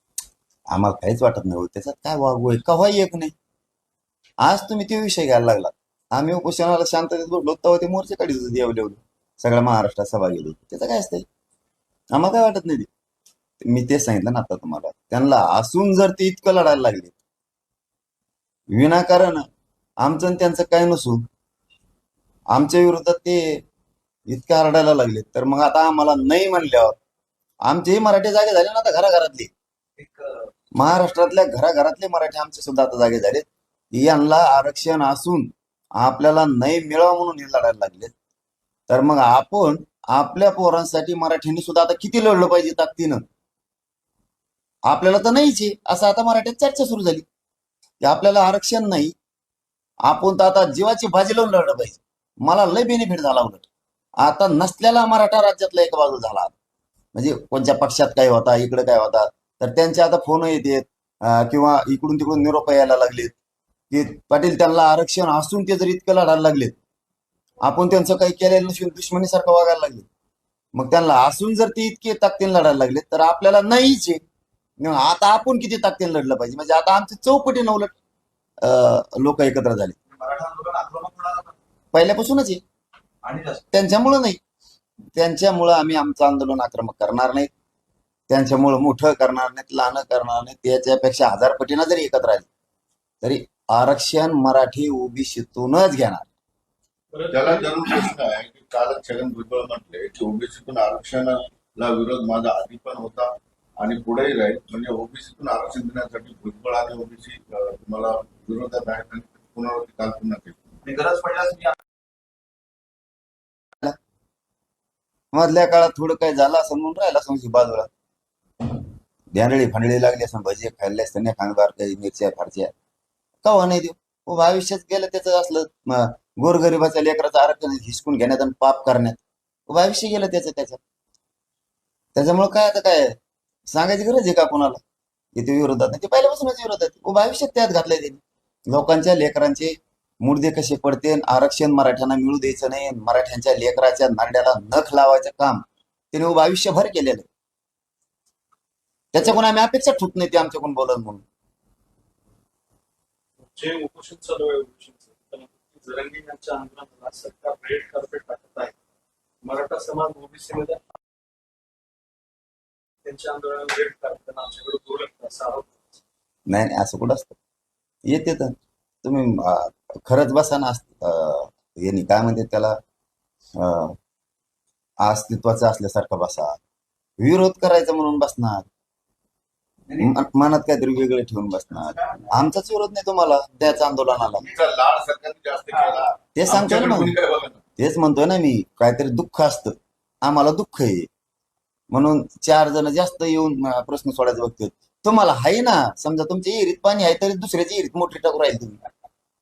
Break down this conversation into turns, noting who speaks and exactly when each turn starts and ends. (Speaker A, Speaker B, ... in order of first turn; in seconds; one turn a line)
Speaker A: 0.7-3.3
Speaker A: 4.4-11.2
Speaker A: 12.1-12.9
Speaker A: 13.6-17.1
Speaker A: 18.7-19.5
Speaker A: 20.0-21.2
Speaker A: 22.5-23.6
Speaker A: 24.3-26.9
Speaker A: 27.6-29.5
Speaker B: 30.0-30.5
Speaker A: 30.7-38.1
Speaker A: 38.9-43.2
Speaker A: 44.9-47.2
Speaker A: 48.0-49.1
Speaker A: 50.0-53.7
Speaker A: 54.2-56.5
Speaker A: 57.1-63.3
Speaker A: 63.9-66.7
Speaker A: 67.6-70.0
Speaker A: 70.7-74.2
Speaker A: 74.8-77.9
Speaker A: 78.6-80.0
Speaker B: 80.1-81.5
Speaker A: 81.9-82.6
Speaker B: 83.2-83.7
Speaker A: 83.7-84.4
Speaker A: 85.2-87.5
Speaker A: 88.3-92.5
Speaker A: 93.2-96.3
Speaker C: 97.1-98.1
Speaker D: 97.3-110.6
Speaker B: 110.8-111.8
Speaker A: 115.3-117.9
Speaker A: 119.3-122.7
Speaker A: 123.4-130.8
Speaker A: 132.1-133.2
Speaker A: 133.7-134.8
Speaker A: 135.3-147.2
Speaker A: 149.1-151.2
Speaker C: 153.5-158.7
Speaker C: 159.4-160.8
Speaker C: 163.0-165.7
Speaker A: 166.5-167.3
Speaker A: 168.1-172.8
Speaker A: 173.6-173.9
Speaker A: 175.0-176.6
Speaker A: 177.2-178.7
Speaker B: 179.9-180.2
Speaker A: 180.0-184.4
Speaker B: 181.7-182.5
Speaker D: 184.4-187.6
Speaker B: 185.7-186.1
Speaker A: 186.3-187.1
Speaker A: 187.8-191.1
Speaker A: 191.9-198.8